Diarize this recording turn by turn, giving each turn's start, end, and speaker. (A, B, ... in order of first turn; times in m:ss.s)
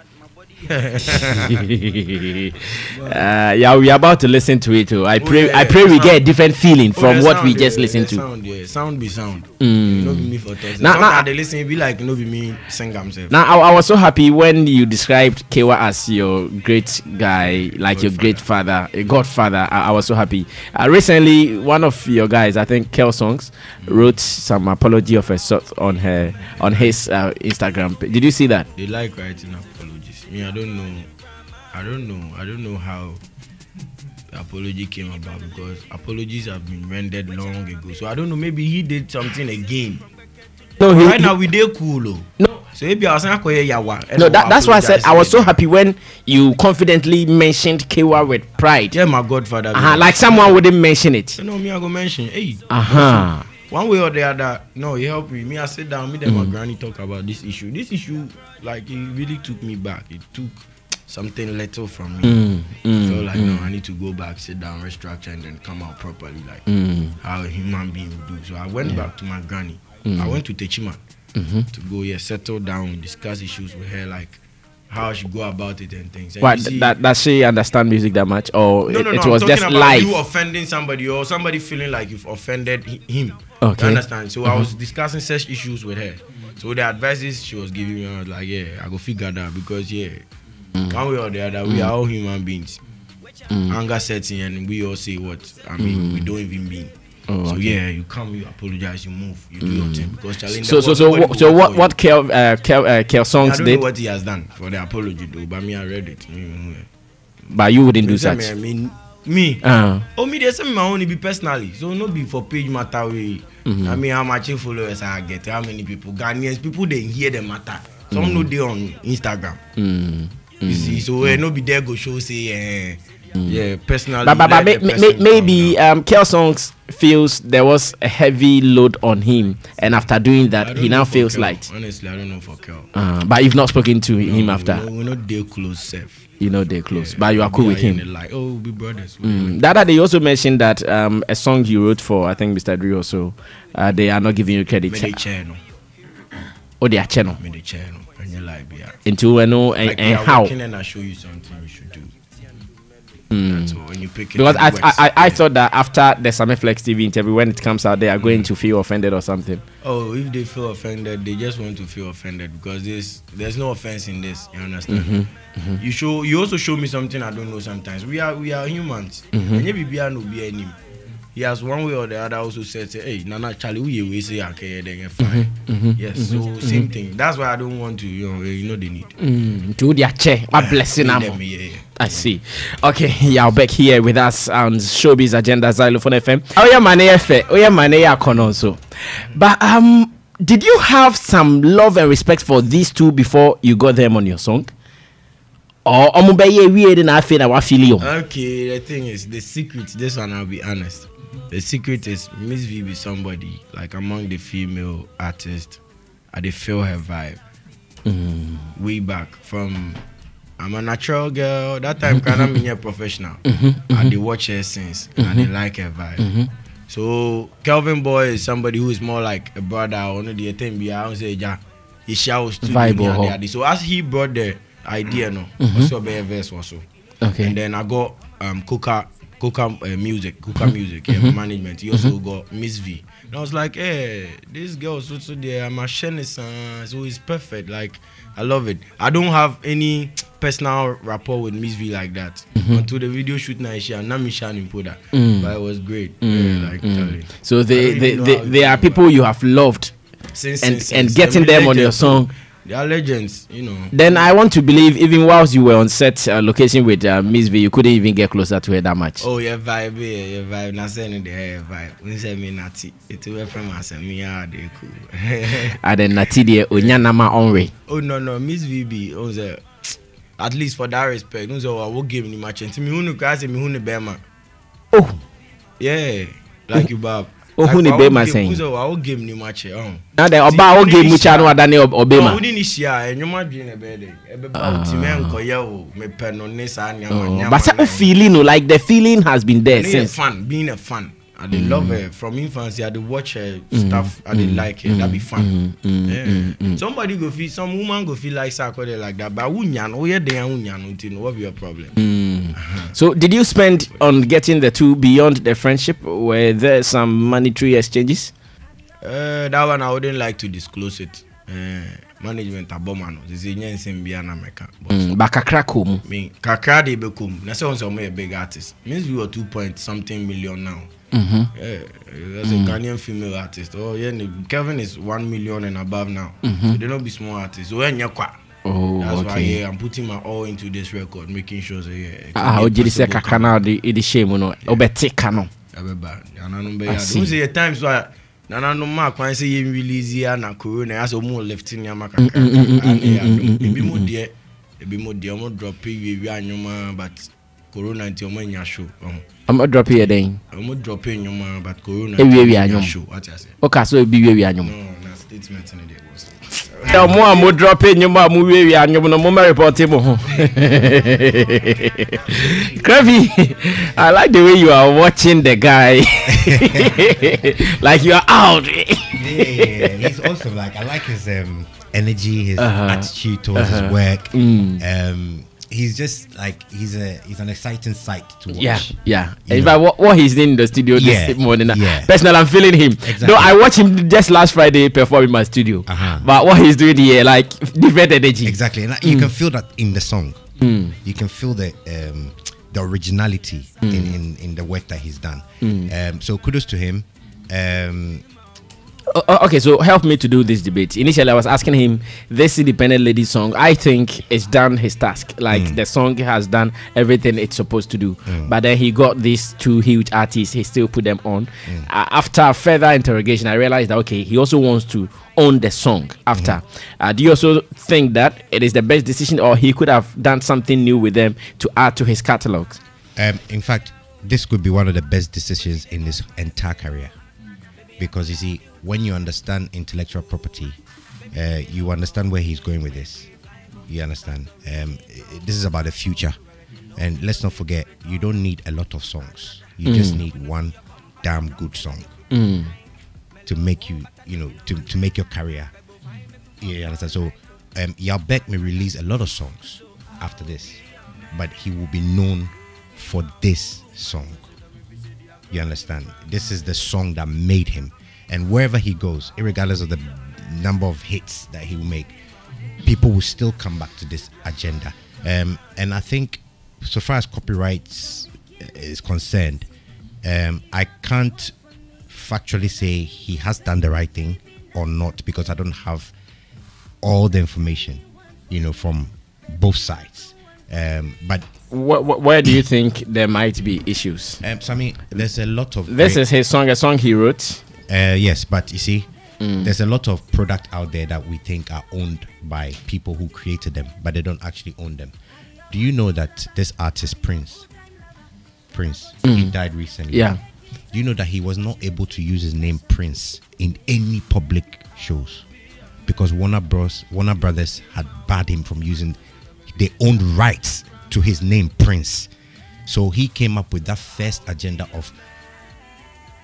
0:00.6-0:01.7 A
0:01.1-0:08.2 B
0:02.9-0:03.3 A
0:05.2-0:06.2 A
0:07.0-0:13.3 A
0:09.6-0:11.3 B
0:13.3-0:28.7 B
0:17.9-0:18.4 A
0:23.8-0:24.1 A
0:28.8-0:31.1 A
0:31.7-0:33.2 A
0:34.3-0:40.0 A
0:40.8-0:41.3 B
0:40.9-0:45.6 A
0:44.2-0:49.0 B
0:48.9-0:50.6 A
0:49.7-0:51.4 B
0:51.4-1:02.4 A
0:52.7-0:53.5 B
1:02.2-1:03.6 B
1:03.0-1:06.7 A
1:06.7-1:07.2 B
1:07.2-1:11.0 A
1:10.0-1:10.4 B
1:11.4-1:11.7 B
1:11.7-1:16.9 A
1:16.4-1:20.1 B
1:18.9-1:30.2 A
1:23.6-1:24.7 B
1:30.9-1:32.8 A
1:33.7-1:36.9 A
1:35.8-1:36.3 B
1:37.3-1:37.8 B
1:37.5-1:41.9 A
1:39.6-1:43.8 B
1:43.4-1:46.9 A
1:47.5-1:48.5 B
1:48.0-1:59.6 A
1:49.6-1:50.0 B
1:53.7-1:54.0 B
1:58.1-1:58.5 B
1:59.8-2:01.0 B
2:00.7-2:05.8 A
2:04.2-2:11.6 B
2:10.6-2:12.9 A
2:12.9-2:14.8 B
2:14.2-2:16.2 A
2:16.4-2:18.0 B
2:16.9-2:19.6 A
2:19.2-2:25.2 B
2:24.9-2:25.6 A
2:26.8-2:27.4 B
2:27.4-2:29.0 A
2:29.1-2:30.5 B
2:29.8-2:32.1 A
2:33.3-2:33.8 B
2:33.4-2:35.4 A
2:34.4-2:39.6 B
2:38.2-2:38.5 A
2:39.8-2:50.8 A
2:44.9-2:45.8 B
2:49.3-2:49.6 B
2:51.4-2:59.1 A
2:55.2-2:56.9 B
2:59.2-3:01.4 B
3:00.5-3:02.0 A
3:02.0-3:14.7 B
3:15.9-3:18.1 B
3:18.0-3:25.8 A
3:26.3-3:27.4 A
3:28.1-3:28.7 B
3:28.8-3:30.0 A
3:30.6-3:36.3 A
3:33.5-3:34.1 B
3:35.2-3:35.5 B
3:36.2-3:36.5 B
3:36.9-3:46.8 A
3:42.6-3:43.4 B
3:45.6-3:45.9 B
3:47.2-3:47.6 B
3:47.4-4:09.0 A
3:51.1-3:51.4 B
4:02.6-4:02.8 B
4:05.1-4:05.5 B
4:06.2-4:09.9 B
4:10.3-4:14.2 A
4:10.6-4:12.3 B
4:13.9-4:19.2 B
4:19.2-4:25.8 A
4:25.7-4:27.7 B
4:27.9-4:34.2 A
4:34.9-4:35.2 B
4:35.8-4:41.6 A
4:37.6-4:38.6 B
4:40.2-4:42.4 B
4:42.1-4:48.1 A
4:44.6-4:45.4 B
4:47.1-4:50.1 B
4:49.7-4:55.5 A
4:51.5-4:52.0 B
4:53.7-4:56.8 B
4:56.1-5:02.0 A
5:02.0-5:08.3 B
5:02.6-5:02.9 A
5:09.0-5:15.1 A
5:14.9-5:16.0 B
5:16.0-5:20.9 A
5:21.1-5:21.5 B
5:21.5-5:28.4 A
5:22.4-5:22.8 B
5:26.4-5:26.8 B
5:28.6-5:29.6 B
5:29.0-5:33.6 A
5:32.4-5:35.5 B
5:35.7-5:49.2 A
5:36.9-5:37.3 B
5:42.2-5:44.1 B
5:49.5-5:50.4 B
5:50.5-5:53.6 A
5:52.2-5:52.9 B
5:53.6-5:54.7 B
5:54.6-5:57.5 A
5:56.9-6:10.2 B
6:06.3-6:07.1 C
6:09.1-6:19.8 C
6:12.6-6:14.8 B
6:18.5-6:29.3 B
6:20.9-6:22.1 C
6:23.0-6:23.6 C
6:25.9-6:26.3 C
6:28.4-6:30.4 C
6:30.6-6:30.9 B
6:31.0-6:38.2 C
6:33.8-6:34.1 B
6:35.6-6:35.9 B
6:39.1-7:02.8 B
6:45.5-6:45.8 C
6:48.3-6:48.5 C
7:03.2-7:07.1 C
7:08.0-7:10.8 C
7:11.3-7:13.3 C
7:13.9-7:16.4 C
7:17.0-7:22.1 C
7:19.8-7:20.2 B
7:22.3-7:22.7 B
7:23.4-7:25.7 C
7:26.6-7:34.5 C
7:35.5-7:42.1 C
7:42.8-7:49.7 C
7:50.2-7:51.5 C
7:52.1-7:56.1 C
7:57.0-8:01.5 C
8:01.7-8:04.4 B
8:04.4-8:06.2 C
8:05.9-8:07.6 B
8:07.9-8:09.1 C
8:09.4-8:09.7 B
8:09.6-8:15.1 C
8:15.7-8:17.7 C
8:18.7-8:20.4 C
8:19.2-8:19.5 B
8:20.1-8:20.4 B
8:20.9-8:25.4 C
8:26.1-8:29.2 C
8:29.7-8:32.3 C
8:32.9-8:35.2 C